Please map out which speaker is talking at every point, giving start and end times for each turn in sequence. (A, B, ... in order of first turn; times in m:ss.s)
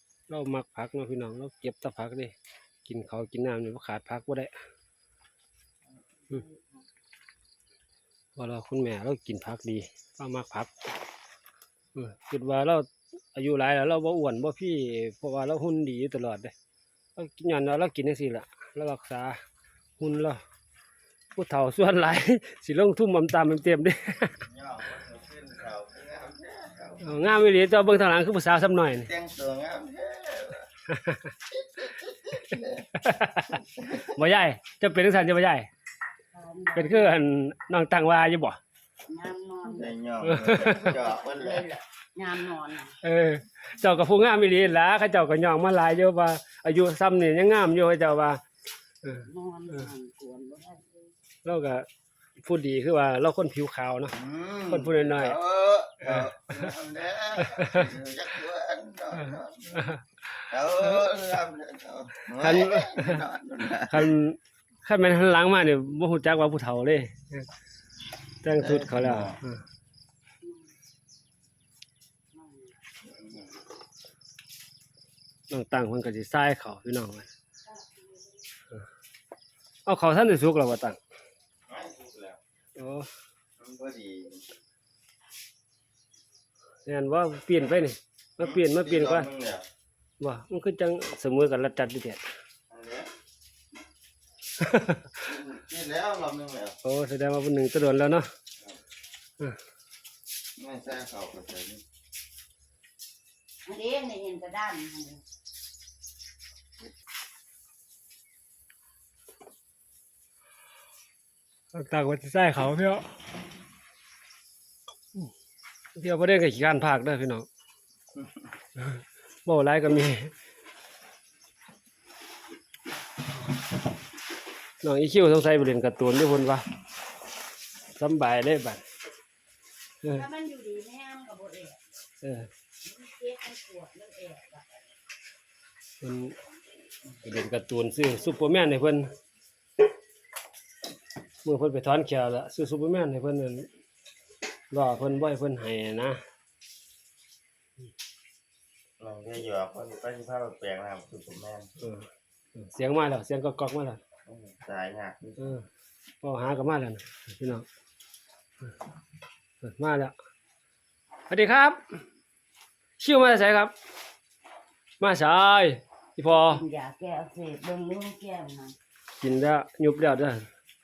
0:00.3-0:02.3 A
0:02.8-0:04.5 A
0:05.9-0:06.8 B
0:08.3-0:10.7 A
0:11.9-0:16.5 A
0:17.2-0:19.4 A
0:20.0-0:20.4 A
0:21.3-0:24.4 A
0:24.4-0:27.2 C
0:27.0-0:29.1 A
0:29.0-0:30.7 C
0:30.9-0:31.3 A
0:31.5-0:32.8 C
0:32.6-0:35.7 A
0:33.9-0:34.2 C
0:36.3-0:37.1 B
0:36.7-0:38.6 A
0:39.1-0:39.9 B
0:39.7-0:41.7 C
0:40.2-0:40.9 A
0:40.6-0:43.0 B
0:43.0-0:48.4 A
0:49.0-0:51.1 B
0:51.4-0:51.8 A
0:52.4-0:54.2 A
0:54.1-0:59.9 C
0:54.7-0:55.4 A
0:56.0-0:56.7 A
0:57.4-0:57.9 A
0:59.3-1:00.0 A
1:00.5-1:04.2 C
1:02.4-1:07.5 A
1:08.4-1:09.6 A
1:08.6-1:09.4 C
1:10.4-1:10.7 B
1:12.3-1:12.8 B
1:13.1-1:13.4 C
1:15.5-1:17.3 A
1:17.7-1:18.4 B
1:19.8-1:21.0 A
1:21.7-1:22.4 C
1:22.8-1:23.1 A
1:23.6-1:24.5 C
1:26.8-1:29.3 A
1:28.4-1:29.6 C
1:30.2-1:32.2 A
1:32.7-1:33.1 C
1:34.6-1:35.2 A
1:35.2-1:36.8 C
1:36.8-1:38.3 A
1:40.6-1:41.8 C
1:43.7-1:45.2 B
1:51.7-1:53.0 A
1:55.9-1:57.5 A
1:58.8-2:00.3 A
2:04.8-2:06.6 A
2:08.0-2:08.8 A
2:10.0-2:11.8 B
2:12.2-2:12.5 A
2:12.8-2:14.7 B
2:16.0-2:16.4 A
2:17.2-2:19.1 A
2:21.4-2:23.7 A
2:24.7-2:26.2 A
2:29.0-2:31.7 C
2:31.8-2:34.0 A
2:34.3-2:35.5 C
2:35.4-2:35.7 A
2:36.2-2:37.7 A
2:39.6-2:40.1 A
2:41.3-2:41.8 A
2:43.0-2:43.7 A
2:45.0-2:46.6 A
2:46.2-2:48.7 B
2:49.2-2:50.5 A